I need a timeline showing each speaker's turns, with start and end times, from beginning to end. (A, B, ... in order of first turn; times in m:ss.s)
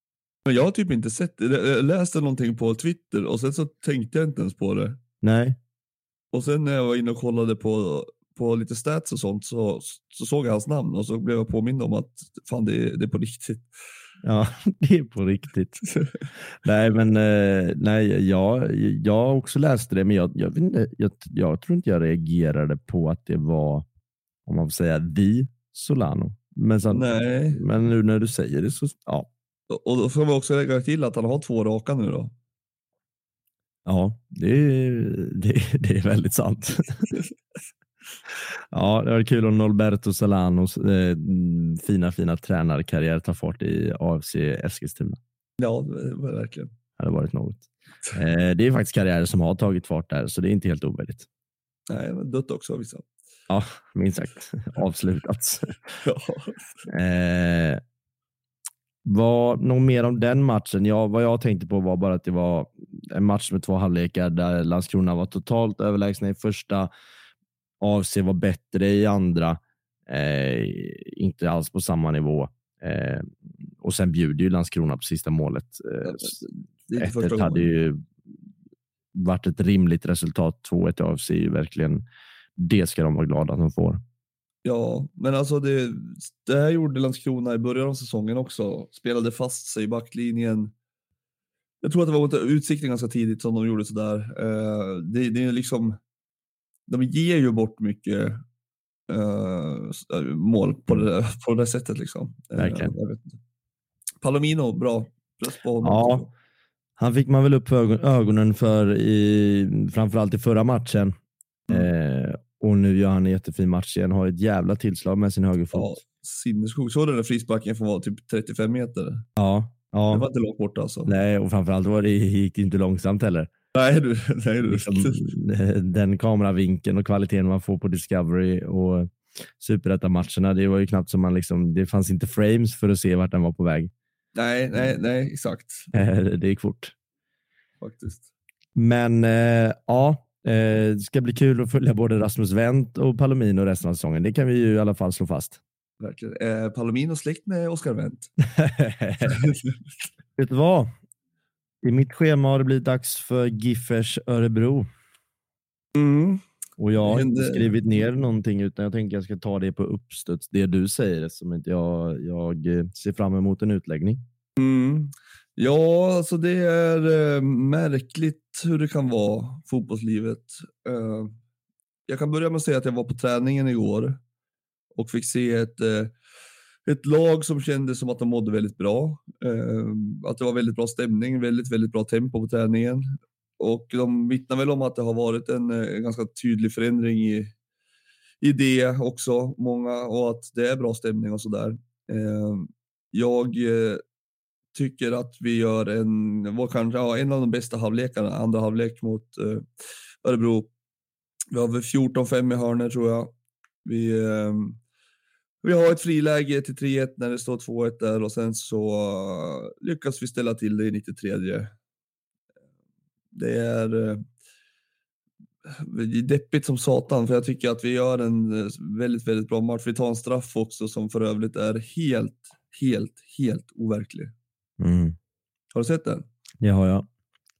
0:00.4-0:05.0 A
0:05.2-0:05.6 B
0:06.3-0:13.7 A
0:14.2-0:15.8 B
0:15.8-0:16.2 A
0:16.6-0:23.8 B
0:24.4-0:29.3 B
0:26.9-0:27.6 A
0:29.7-0:32.3 A
0:33.8-0:37.1 B
0:38.7-0:45.2 B
0:45.6-0:46.7 A
0:47.0-0:51.2 B
0:51.9-0:53.1 A
0:53.5-0:55.7 B
0:56.0-0:56.8 A
0:56.9-0:57.8 B
0:59.0-1:06.9 B
1:07.8-1:16.4 B
1:16.0-1:17.7 A
1:17.0-1:18.0 B
1:19.1-1:22.0 B
1:22.6-1:24.0 B
1:24.6-1:30.7 A
1:31.8-1:36.0 A
1:36.9-1:38.4 A
1:39.1-1:43.4 A
1:42.6-1:42.9 B
1:44.2-1:46.3 A
1:45.8-1:46.2 B
1:47.0-1:51.1 B
1:51.7-1:55.9 B
1:55.7-1:59.2 A
1:59.4-2:00.2 B
2:00.1-2:01.1 A
2:01.0-2:03.5 B
2:03.7-2:05.3 A
2:04.6-2:13.9 B
2:14.4-2:15.9 A
2:15.9-2:16.9 B
2:17.8-2:18.3 A
2:18.7-2:25.6 B
2:26.0-2:28.3 A
2:28.5-2:29.4 B
2:29.2-2:29.8 A
2:30.4-2:30.9 B
2:31.8-2:34.9 B
2:35.9-2:36.4 A
2:36.8-2:44.2 B
2:37.0-2:37.8 A
2:44.6-2:51.3 A
2:52.1-2:54.2 A
2:54.9-2:56.1 A
2:56.8-3:03.1 A
3:03.6-3:07.5 A
3:08.4-3:14.0 A
3:14.7-3:19.6 A
3:20.2-3:20.7 A
3:21.5-3:23.3 A
3:23.8-3:24.8 A
3:25.6-3:31.7 A
3:33.3-3:34.2 A
3:35.6-3:44.3 A
3:44.8-3:45.2 B
3:45.7-3:46.2 A
3:46.6-3:47.0 B